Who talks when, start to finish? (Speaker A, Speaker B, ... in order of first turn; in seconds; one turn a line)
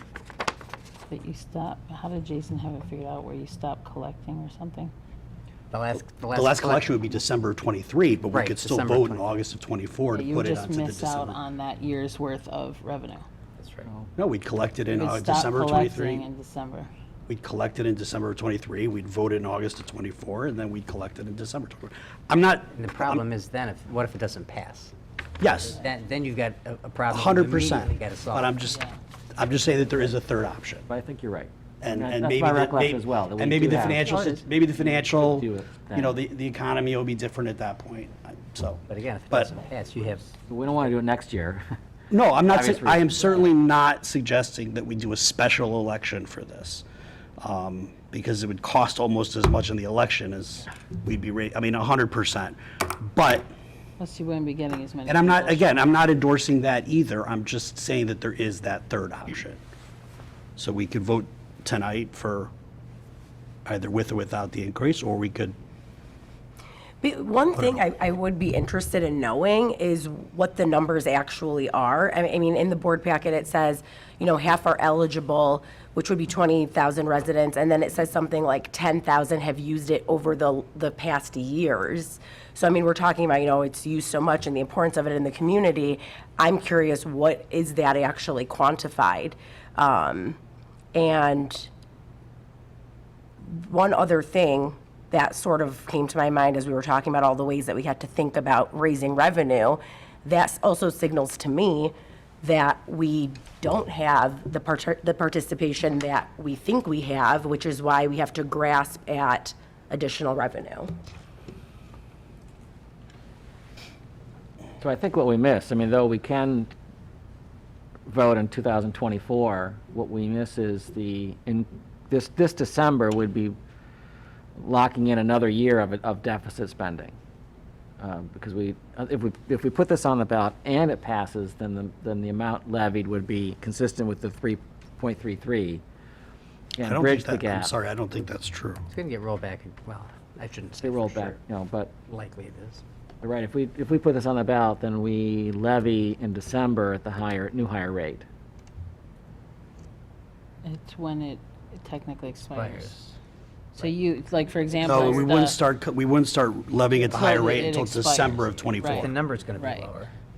Speaker A: 1.1-4.9
Speaker B: 5.7-7.2
Speaker C: 6.3-11.4
Speaker B: 8.3-9.4
Speaker A: 10.1-13.3
Speaker B: 13.6-13.9
Speaker C: 14.2-16.2
Speaker A: 14.9-16.9
Speaker C: 17.3-23.2
Speaker B: 22.7-24.9
Speaker C: 25.4-25.8
Speaker B: 25.6-28.6
Speaker C: 27.1-28.8
Speaker A: 28.6-29.0
Speaker C: 29.4-30.9
Speaker D: 30.9-34.1
Speaker C: 31.8-39.5
Speaker A: 33.9-34.5
Speaker D: 35.0-36.2
Speaker B: 38.9-40.4
Speaker D: 40.5-41.6
Speaker C: 42.1-46.9
Speaker D: 42.4-43.2
Speaker C: 47.4-53.5
Speaker A: 54.0-56.0
Speaker C: 55.1-59.6
Speaker C: 60.6-62.5
Speaker C: 63.7-65.6
Speaker E: 67.0-90.4
Speaker E: 90.9-91.7
Speaker E: 93.5-110.9
Speaker D: 114.8-116.7
Speaker D: 118.1-123.6
Speaker D: 124.6-127.2
Speaker D: 128.0-135.8
Speaker D: 136.8-137.7
Speaker C: 136.8-138.8
Speaker B: 138.9-141.4
Speaker D: 140.8-141.9
Speaker B: 142.1-142.8
Speaker D: 143.2-148.3
Speaker A: 150.6-153.1
Speaker B: 152.5-153.0
Speaker A: 153.8-155.6
Speaker C: 154.8-159.1
Speaker A: 157.1-159.9
Speaker B: 159.0-160.1